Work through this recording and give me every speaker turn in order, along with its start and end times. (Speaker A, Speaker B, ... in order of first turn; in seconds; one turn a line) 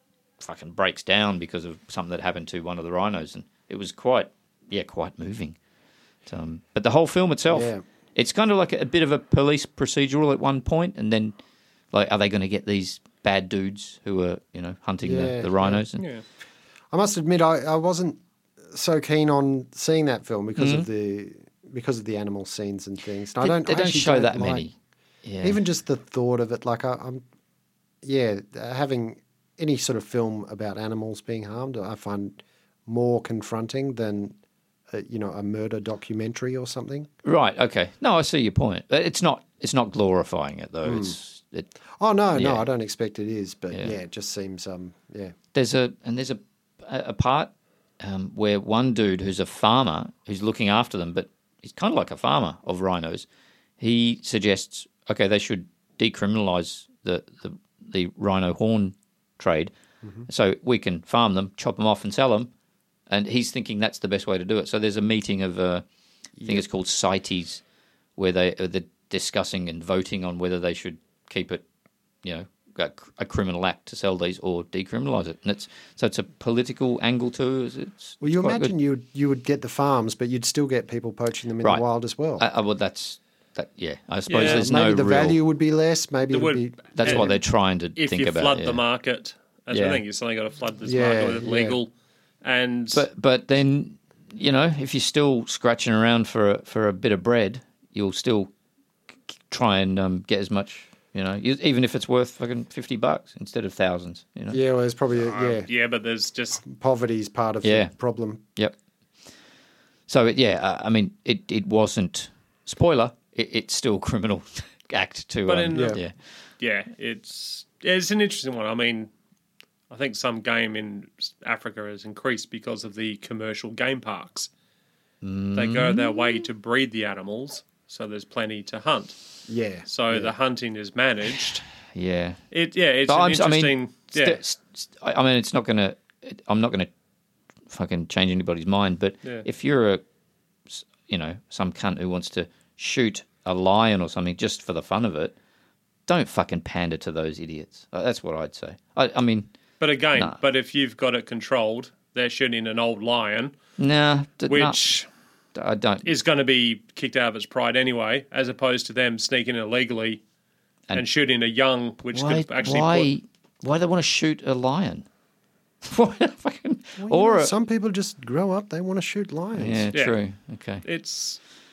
Speaker A: 0.4-5.6
Speaker A: 6.3-11.4
Speaker B: 7.5-7.8
Speaker A: 11.9-16.0
Speaker B: 15.0-15.8
Speaker B: 16.9-18.2
Speaker B: 18.7-24.7
Speaker A: 20.6-20.9
Speaker A: 23.4-25.6
Speaker B: 25.4-27.2
Speaker B: 28.0-34.3
Speaker B: 34.9-37.1
Speaker A: 37.2-41.7
Speaker B: 40.8-41.1
Speaker B: 42.0-45.3
Speaker A: 42.3-42.6
Speaker A: 45.5-53.3
Speaker A: 53.8-59.7
Speaker A: 60.2-62.5
Speaker A: 63.1-65.8
Speaker B: 66.4-66.6
Speaker A: 66.4-67.6
Speaker A: 68.2-71.6
Speaker A: 72.2-78.7
Speaker B: 78.2-82.4
Speaker A: 82.4-85.4
Speaker C: 84.3-84.7
Speaker B: 84.3-87.3
Speaker C: 86.3-87.3
Speaker A: 87.0-88.8
Speaker C: 88.0-91.9
Speaker A: 89.7-90.0
Speaker B: 90.8-91.8
Speaker C: 92.4-93.0
Speaker A: 92.9-98.5
Speaker A: 99.3-104.6
Speaker B: 104.5-105.7
Speaker C: 105.2-106.6
Speaker B: 106.6-108.4
Speaker A: 107.6-107.9
Speaker A: 110.1-116.1
Speaker C: 115.5-116.0
Speaker B: 115.7-116.0
Speaker C: 116.6-119.1
Speaker C: 119.9-124.5
Speaker A: 125.2-126.4
Speaker C: 125.5-129.2
Speaker B: 129.5-130.3
Speaker C: 129.8-131.6
Speaker A: 131.9-132.4
Speaker C: 132.5-134.4
Speaker A: 133.1-136.9
Speaker A: 137.7-140.0
Speaker A: 140.7-145.3
Speaker A: 146.1-149.5
Speaker C: 149.8-153.6
Speaker A: 153.8-154.9
Speaker C: 154.5-155.1
Speaker A: 155.5-156.1
Speaker C: 156.0-160.2
Speaker C: 160.9-163.1
Speaker A: 162.1-165.1
Speaker A: 165.8-167.5
Speaker B: 167.0-169.9
Speaker A: 169.6-170.8
Speaker C: 170.8-171.4